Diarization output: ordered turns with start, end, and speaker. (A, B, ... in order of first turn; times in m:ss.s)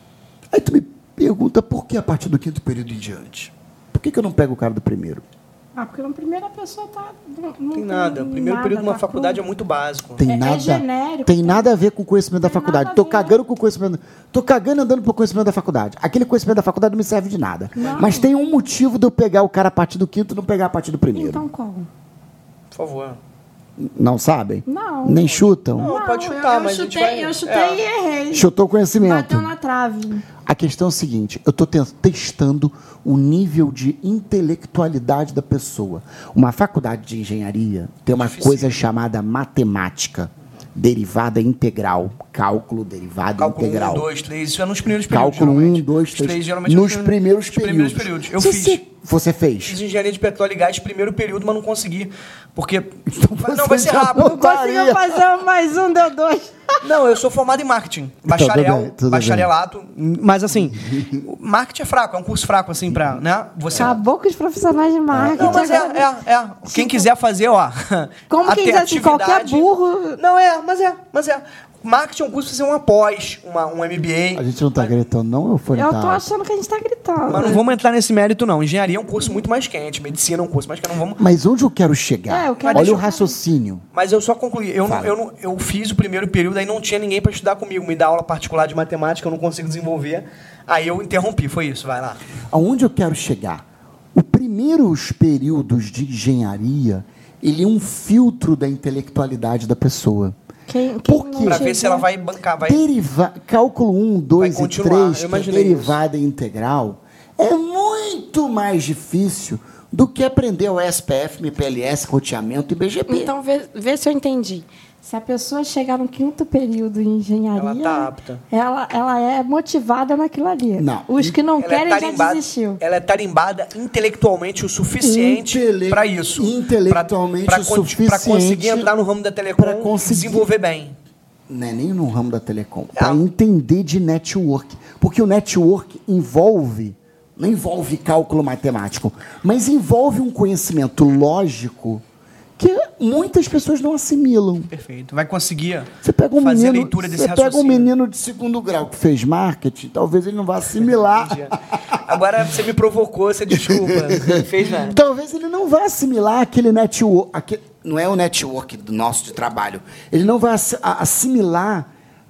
0:00.5-0:05.2 A
0:05.8-0:09.4 B
0:07.8-0:10.2 C
0:10.2-0:21.4 A
0:10.2-0:11.7 B
0:12.4-0:13.4 B
0:17.8-0:18.3 B
0:17.8-0:18.1 C
0:21.1-0:21.9 B
0:22.7-0:23.2 C
0:23.8-0:25.9 A
0:24.7-0:30.3 B
0:25.4-0:27.8 C
0:28.3-0:29.5 A
0:30.4-0:44.1 A
0:38.1-0:38.8 C
0:43.4-0:48.8 C
0:45.0-0:49.8 A
0:49.6-0:54.4 C
0:53.1-0:55.2 A
0:54.2-0:56.8 B
0:56.8-1:04.0 C
0:58.3-0:59.5 A
1:00.9-1:01.2 A
1:03.8-1:06.1 B
1:05.1-1:05.8 A
1:05.2-1:14.9 C
1:06.7-1:07.1 B
1:08.3-1:10.2 B
1:14.4-1:16.2 A
1:15.8-1:17.6 B
1:17.3-1:21.2 C
1:21.2-1:23.8 A
1:22.3-1:23.4 B
1:22.6-1:23.0 C
1:23.9-1:32.2 C
1:24.8-1:25.2 A
1:32.5-1:40.4 A
1:40.7-1:42.1 B
1:41.0-1:41.7 A
1:41.4-1:42.8 C
1:42.6-1:53.3 A
1:44.4-1:46.0 C
1:53.1-2:02.8 B
1:57.6-1:58.4 C
2:00.8-2:01.4 A
2:01.6-2:11.0 C
2:05.0-2:08.9 A
2:09.6-2:10.5 A
2:11.5-2:22.0 A
2:13.0-2:13.2 C
2:22.6-2:24.7 A
2:24.7-2:27.9 C
2:26.0-2:32.2 A
2:31.0-2:35.0 C
2:33.5-2:41.9 A